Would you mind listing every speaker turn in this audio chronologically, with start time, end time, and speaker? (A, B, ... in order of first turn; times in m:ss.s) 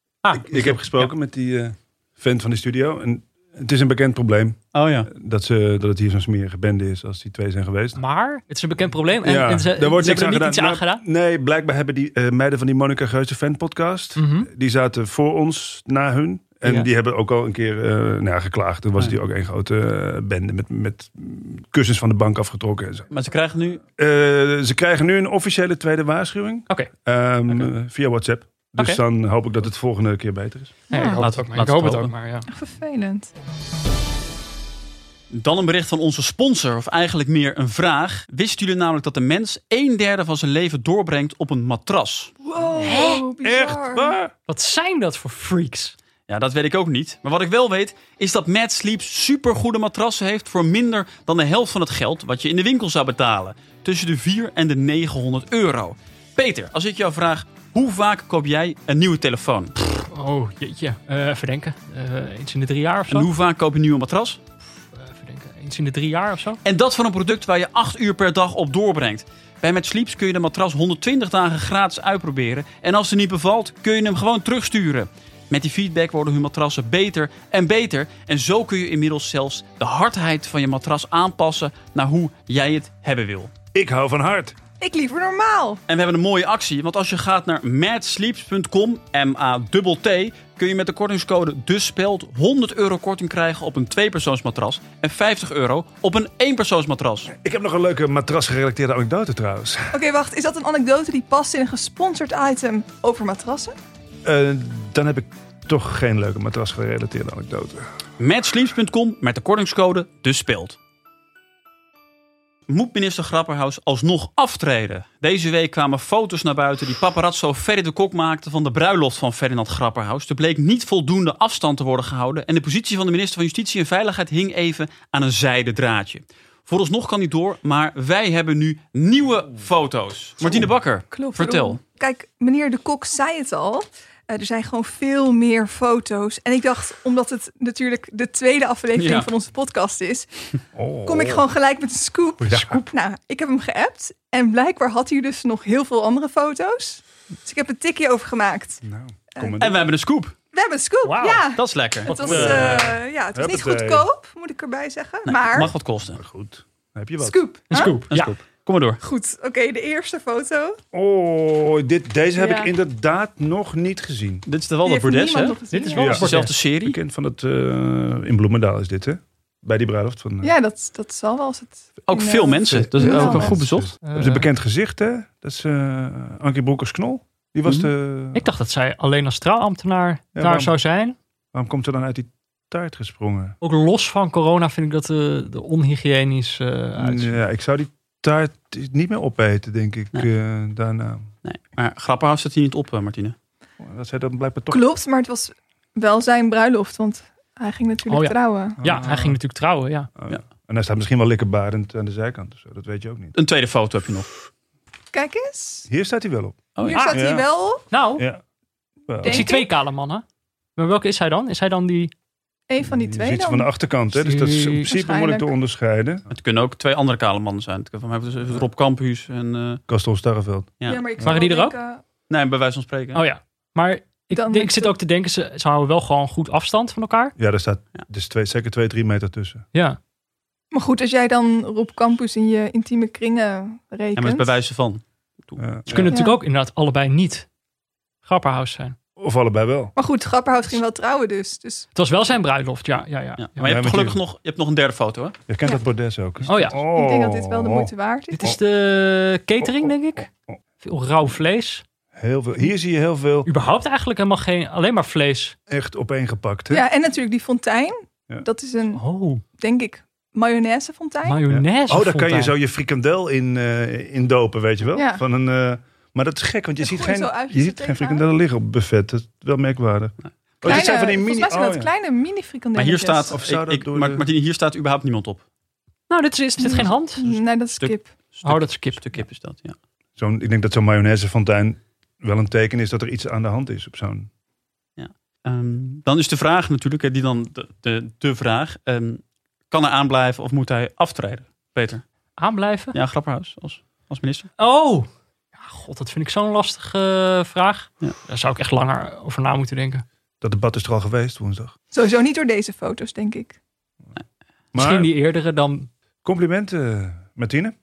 0:00.2-0:01.1 A
0:00.3-0:08.0 B
0:04.7-0:05.1 C
0:08.0-0:11.0 A
0:09.2-0:23.1 B
0:14.2-0:14.5 A
0:16.6-0:16.9 A
0:23.1-0:23.8 C
0:24.0-0:30.8 B
0:30.9-0:31.2 D
0:30.9-0:32.5 A
0:31.2-0:32.1 C
0:32.5-0:33.3 D
0:35.3-0:42.3 C
0:42.4-0:44.2 D
0:42.8-0:43.3 A
0:42.9-0:44.3 B
0:44.4-0:46.0 A
0:46.3-0:59.7 C
0:59.8-1:03.3 A
1:03.1-1:04.4 C
1:04.8-1:06.6 A
1:06.6-1:23.5 C
1:23.7-1:24.6 B
1:24.8-1:25.8 D
1:25.9-1:37.3 C
1:37.3-1:40.0 B
1:39.9-1:43.8 D
1:44.2-1:47.9 B
1:48.2-1:50.8 C
1:52.7-2:11.8 C
2:10.4-2:20.3 D
2:18.9-2:19.3 C
2:20.7-2:21.4 B
2:21.0-2:28.8 D
2:22.4-2:22.8 B
2:28.8-2:29.8 B
2:29.6-2:30.3 C
2:30.5-2:35.7 D
2:31.0-2:31.5 A
2:31.5-2:32.2 C
2:32.1-2:32.9 A
2:32.2-2:34.0 B
2:35.2-2:36.2 C
2:36.1-2:37.4 B
2:37.2-2:38.0 D
2:37.7-2:38.4 A
2:38.1-2:39.0 C
2:39.0-2:40.8 D
2:40.9-2:44.4 B
2:42.4-2:42.7 D
2:44.4-2:47.0 C
2:44.8-2:46.2 D
2:45.7-2:46.5 A
2:45.9-2:50.5 B
2:50.4-2:53.6 D
2:52.0-2:53.9 C
2:52.8-2:58.4 B
2:53.1-2:54.5 A
2:58.3-3:01.2 A
3:00.4-3:00.7 B
3:01.5-3:03.6 B
3:03.6-3:07.4 A
3:07.0-3:11.3 B
3:11.4-3:13.4 C
3:13.8-3:14.8 B
3:14.7-3:18.8 D
3:18.1-3:20.1 A
3:18.8-3:19.4 B
3:20.2-3:23.3 B
3:23.3-3:24.3 C
3:25.1-3:25.9 D
3:25.9-3:27.5 B
3:26.8-3:27.0 C
3:26.8-3:27.8 D
3:26.9-3:27.2 A
3:27.9-3:28.2 A
3:29.1-3:29.5 B
3:29.2-3:29.7 D
3:29.2-3:30.2 A
3:30.8-3:32.1 A
3:32.7-3:33.7 D
3:32.9-3:36.2 B
3:34.1-3:34.9 A
3:34.9-3:35.5 D
3:36.3-3:39.8 C
3:39.9-3:41.4 B
3:40.8-3:41.0 C
3:40.9-3:42.0 D
3:41.2-3:41.7 A
3:42.3-3:43.2 C
3:43.1-3:47.3 A
3:44.3-3:44.9 D
3:47.4-3:49.6 B
3:49.7-3:50.0 A
3:50.7-3:54.5 D
3:54.1-3:55.6 C
3:55.6-3:56.2 B
3:55.9-3:57.5 A
3:56.1-3:56.4 D
3:58.2-3:59.0 A
3:59.2-3:59.9 B
4:00.0-4:01.9 D
4:01.9-4:03.7 A
4:03.4-4:05.4 C
4:03.6-4:04.2 B
4:05.5-4:08.6 B
4:06.4-4:06.8 A
4:06.7-4:08.5 D
4:08.3-4:11.8 A
4:09.6-4:10.6 B
4:12.2-4:13.5 B
4:13.4-4:15.6 A
4:15.7-4:16.8 B
4:16.7-4:19.0 D
4:18.9-4:19.4 A
4:19.6-4:21.4 D
4:21.2-4:22.5 A
4:21.5-4:31.9 B
4:24.9-4:25.2 D
4:26.8-4:28.2 D
4:30.6-4:33.4 D
4:32.7-4:35.4 C
4:33.3-4:34.2 B
4:36.1-4:37.2 A
4:36.6-4:38.1 D
4:37.2-4:39.8 C
4:38.4-4:39.3 A
4:40.2-4:44.3 B
4:45.0-4:52.0 C
4:52.4-4:53.0 A
4:52.9-4:54.5 C
4:54.6-5:00.0 A
5:00.4-5:01.7 B
5:01.9-5:03.6 D
5:04.7-5:05.1 B
5:04.8-5:05.9 A
5:06.2-5:07.7 B